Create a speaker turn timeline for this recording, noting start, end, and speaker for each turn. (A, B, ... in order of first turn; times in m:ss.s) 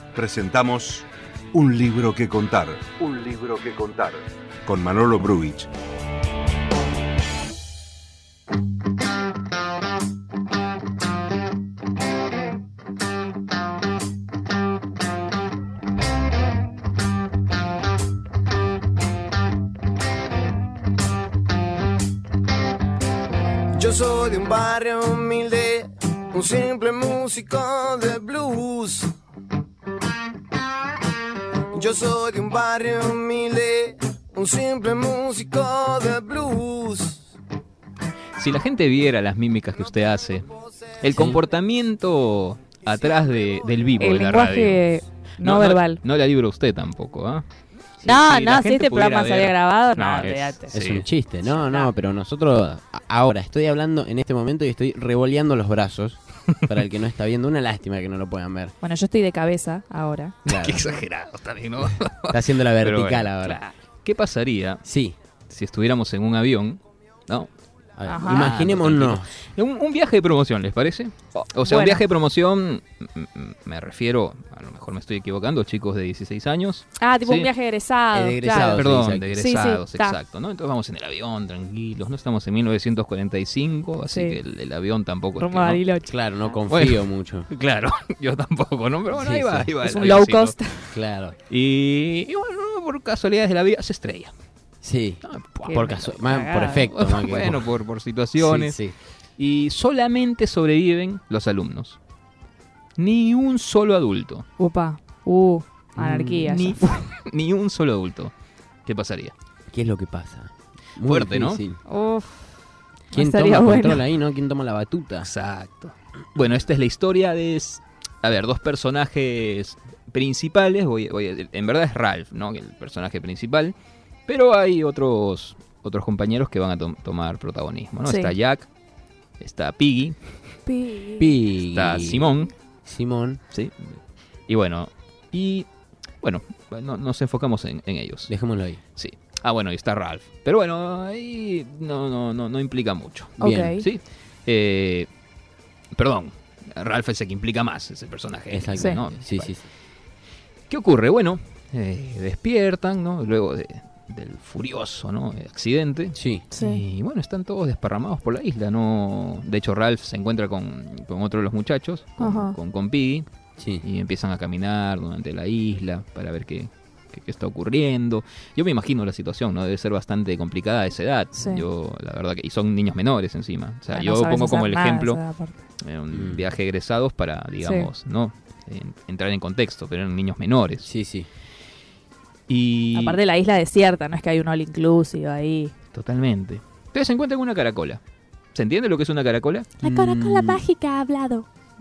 0:00.1-0:05.7 A
0:23.7-0:29.1 B
0:31.7-0:37.2 B
0:38.4-0:44.9 C
0:41.1-0:41.4 D
0:44.0-0:46.0 E
0:45.4-0:47.5 C
0:48.0-0:51.1 C
0:48.0-0:50.7 E
0:50.7-0:58.8 D
0:51.5-0:51.9 E
0:58.8-1:00.4 E
1:00.4-1:04.8 C
1:00.5-1:01.0 D
1:02.3-1:03.6 D
1:04.8-1:05.2 D
1:05.5-1:07.5 C
1:08.0-1:09.4 D
1:08.1-1:08.6 E
1:08.2-1:17.5 C
1:11.6-1:12.0 E
1:17.0-1:20.2 E
1:18.1-1:19.3 D
1:18.7-1:25.8 C
1:24.1-1:24.4 E
1:25.4-1:26.6 E
1:26.1-1:27.5 D
1:26.7-1:30.6 C
1:29.1-1:29.8 D
1:29.8-1:31.0 E
1:30.9-1:31.4 D
1:31.5-1:34.3 C
1:34.8-1:37.7 D
1:35.2-1:36.2 C
1:35.6-1:36.9 E
1:36.7-1:38.8 C
1:38.4-1:39.0 D
1:39.4-1:42.0 C
1:43.0-1:44.5 C
1:44.6-1:46.9 E
1:46.0-1:46.5 D
1:46.0-1:48.3 C
1:48.8-1:49.3 C
1:49.7-1:51.8 D
1:51.0-1:51.6 C
1:51.9-1:52.6 E
1:53.1-1:54.0 E
1:53.1-1:55.3 D
1:55.2-2:03.8 C
2:04.3-2:08.7 C
2:08.0-2:08.3 E
2:09.4-2:10.4 C
2:10.7-2:11.3 E
2:11.2-2:13.4 D
2:11.6-2:12.5 C
2:13.5-2:15.7 C
2:16.2-2:18.3 C
2:18.3-2:18.8 D
2:19.0-2:25.1 C
2:23.4-2:23.8 D
2:23.4-2:23.9 E
2:26.0-2:29.6 C
2:28.5-2:29.7 D
2:28.8-2:29.0 E
2:30.7-2:43.3 C
2:36.2-2:36.5 D
2:36.5-2:36.8 E
2:42.2-2:42.6 E
2:43.6-2:43.8 D
2:43.8-2:55.2 C
2:51.3-2:51.7 E
2:53.9-2:55.6 E
2:55.8-3:00.9 C
2:56.1-2:56.5 D
2:57.6-2:57.9 E
3:00.8-3:01.3 D
3:02.5-3:03.2 C
3:02.9-3:05.7 E
3:05.9-3:08.0 C
3:08.5-3:09.7 C
3:09.8-3:11.5 E
3:09.8-3:10.6 D